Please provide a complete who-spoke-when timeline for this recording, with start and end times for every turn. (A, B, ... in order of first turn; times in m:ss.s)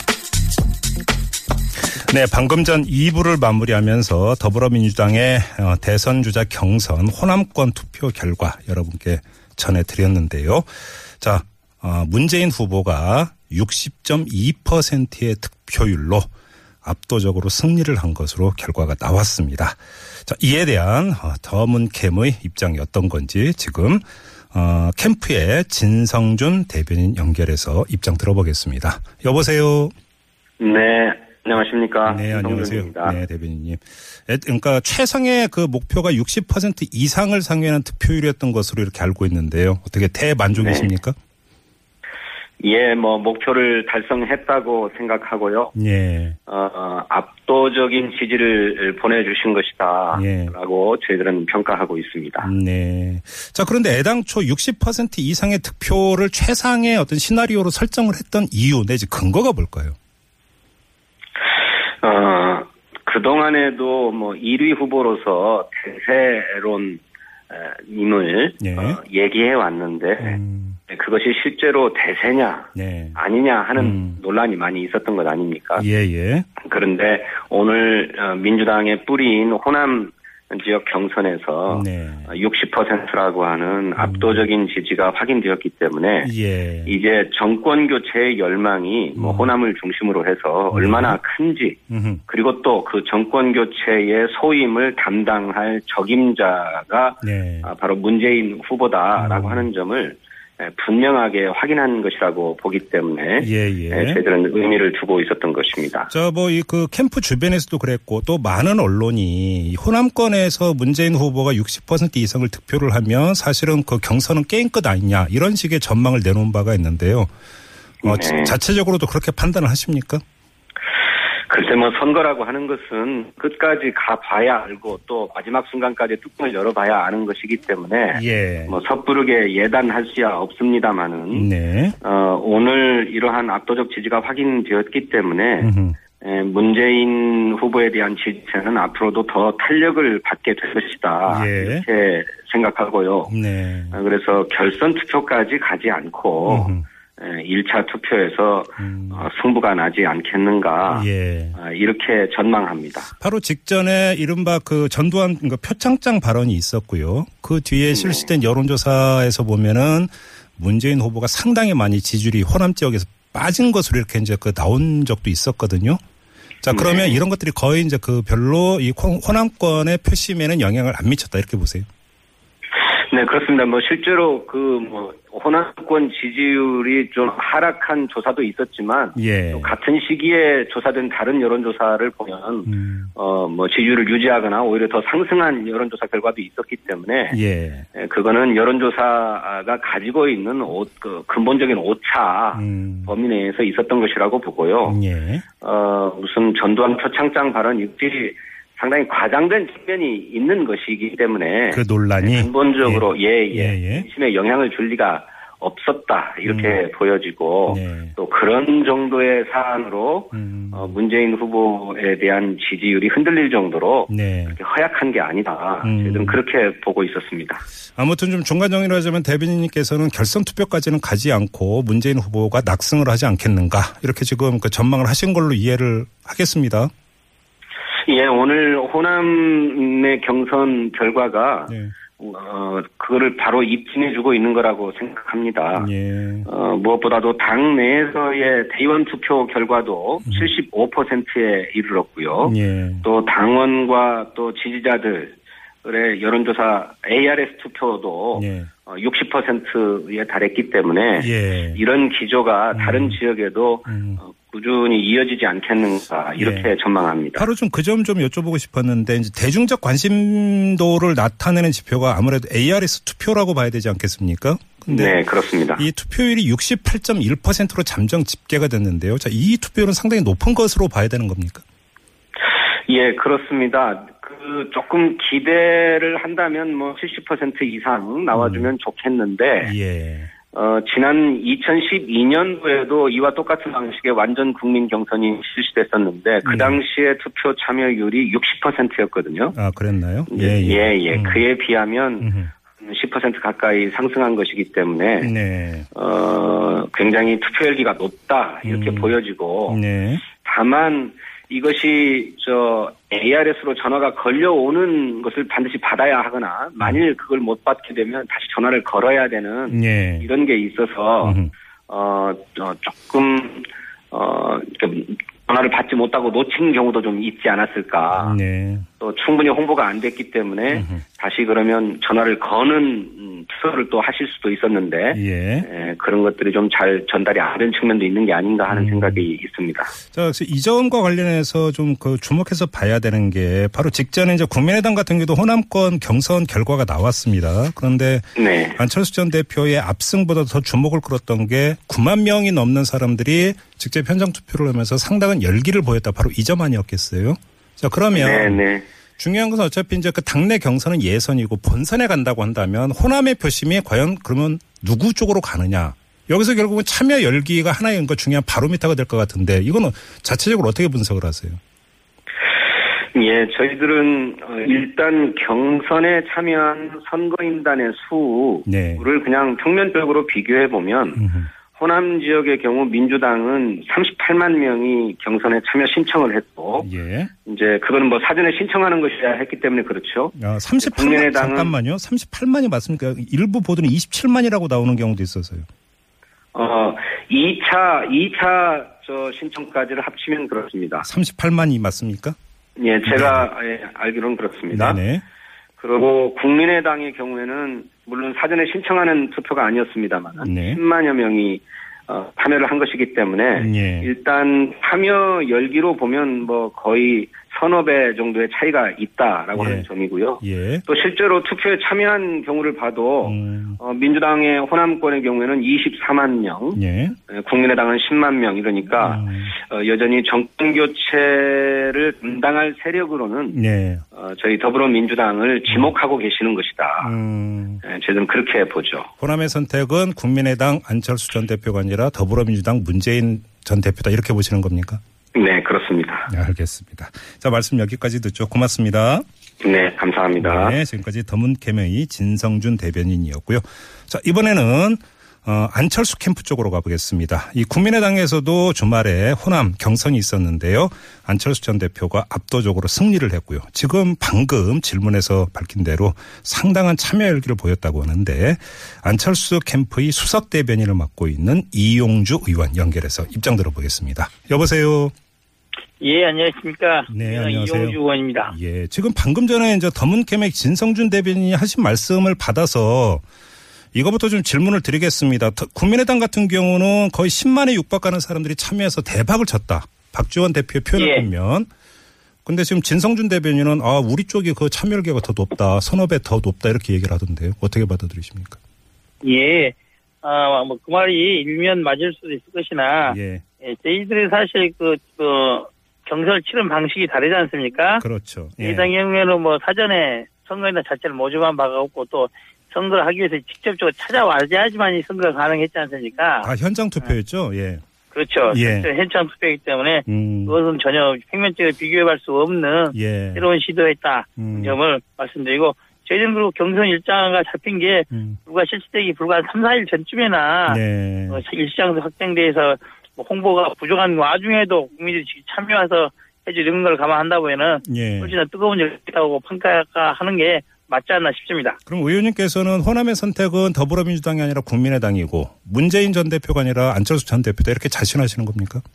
0:01.9-0:16.3 A
0:16.8-0:29.9 A
0:30.6-0:33.2 B
0:32.0-0:41.1 A
0:40.5-0:40.9 B
0:42.6-0:45.7 B
0:45.7-0:46.4 A
0:46.5-0:52.5 B
0:50.1-0:50.5 A
0:52.4-0:59.9 A
1:02.0-1:15.8 B
1:08.6-1:09.0 A
1:10.2-1:10.8 A
1:12.7-1:13.2 A
1:13.8-1:14.2 A
1:15.8-1:16.5 A
1:16.6-1:26.3 B
1:21.7-1:22.3 A
1:24.0-1:24.4 A
1:26.2-1:26.9 A
1:26.9-1:46.1 B
1:29.2-1:29.5 A
1:30.7-1:31.2 A
1:31.9-1:32.2 A
1:37.2-1:37.7 A
1:39.2-1:39.7 A
1:43.4-1:44.2 A
1:46.1-1:57.3 A
1:58.0-2:00.2 A
1:58.0-1:58.6 B
2:01.5-2:11.5 B
2:08.1-2:08.8 A
2:11.3-2:12.0 A
2:12.0-2:23.3 B
2:15.6-2:16.0 A
2:21.3-2:21.8 A
2:23.3-2:24.0 A
2:23.9-2:33.1 B
2:26.5-2:26.8 A
2:28.8-2:29.3 A
2:30.9-2:31.6 A
2:33.2-2:46.0 A
2:37.9-2:38.3 B
2:46.6-2:51.8 A
2:46.7-2:47.2 B
2:53.1-3:07.4 B
2:59.2-2:59.7 A
3:02.6-3:03.1 A
3:07.3-3:07.8 A
3:08.0-3:15.0 B
3:12.5-3:13.1 A
3:14.8-3:15.4 A
3:15.6-3:37.6 B
3:21.7-3:24.0 A
3:26.4-3:26.8 A
3:27.7-3:28.1 A
3:30.3-3:31.0 A
3:34.1-3:34.6 A
3:35.8-3:36.4 A
3:38.0-3:46.9 A
3:48.1-3:55.9 B
3:51.7-3:51.9 A
3:55.7-3:56.5 A
3:56.5-4:17.4 B
4:02.4-4:03.0 A
4:08.3-4:08.7 A
4:11.2-4:11.8 A
4:12.7-4:13.2 A
4:13.9-4:14.2 A
4:16.4-4:16.7 A
4:17.3-4:25.2 A
4:24.9-4:25.8 B
4:25.8-4:31.6 A
4:32.9-4:39.7 B
4:38.3-4:38.7 A
4:39.6-4:40.3 A
4:40.5-4:49.6 B
4:46.4-4:46.8 A
4:49.5-4:51.4 A
4:50.3-4:55.3 B
4:52.2-4:52.5 A
4:55.2-4:55.9 A
4:55.9-4:59.8 B
4:58.6-4:59.1 A
4:59.7-5:00.2 A
5:00.3-5:18.4 B
5:09.7-5:10.3 A
5:11.2-5:11.5 A
5:18.1-5:18.8 A
5:19.0-5:29.9 B
5:20.7-5:21.0 A
5:25.1-5:25.7 A
5:28.7-5:29.2 A
5:30.1-5:48.6 A
5:38.4-5:38.8 B
5:48.1-5:48.9 B
5:49.2-6:01.6 A
6:03.1-6:11.2 B
6:08.6-6:09.0 A
6:11.1-6:11.5 A
6:11.7-6:16.9 B
6:16.8-6:17.3 A
6:17.4-6:21.7 B
6:20.3-6:25.6 A
6:26.5-6:31.0 B
6:31.0-6:32.4 A
6:32.8-6:35.0 B
6:33.0-6:33.5 A
6:34.7-6:35.2 A
6:35.8-6:56.8 B
6:40.4-6:40.8 A
6:43.6-6:44.1 A
6:49.5-6:49.9 A
6:50.4-6:50.8 A
6:53.2-6:53.8 A
6:56.7-6:57.2 A
6:57.3-7:03.6 B
6:59.0-6:59.5 A
7:03.5-7:04.0 A
7:04.1-7:07.1 B
7:07.0-7:07.8 A
7:07.8-7:09.1 B
7:09.2-7:15.0 A
7:15.3-7:16.3 B
7:16.3-7:19.2 A
7:19.6-7:20.8 B
7:20.4-7:45.1 A
7:46.0-7:48.5 C
7:47.1-7:53.2 A
7:53.9-8:01.7 A
8:01.0-8:01.3 C
8:02.4-8:08.6 A
8:09.2-8:18.0 C
8:13.0-8:13.4 A
8:18.0-8:18.9 A
8:18.6-8:26.5 C
8:26.4-8:27.8 A
8:28.1-8:51.8 C
8:28.5-8:28.9 A
8:30.1-8:30.6 A
8:32.9-8:33.4 A
8:34.4-8:34.8 A
8:38.1-8:38.4 A
8:40.7-8:41.4 A
8:47.8-8:48.3 A
8:51.9-8:58.8 A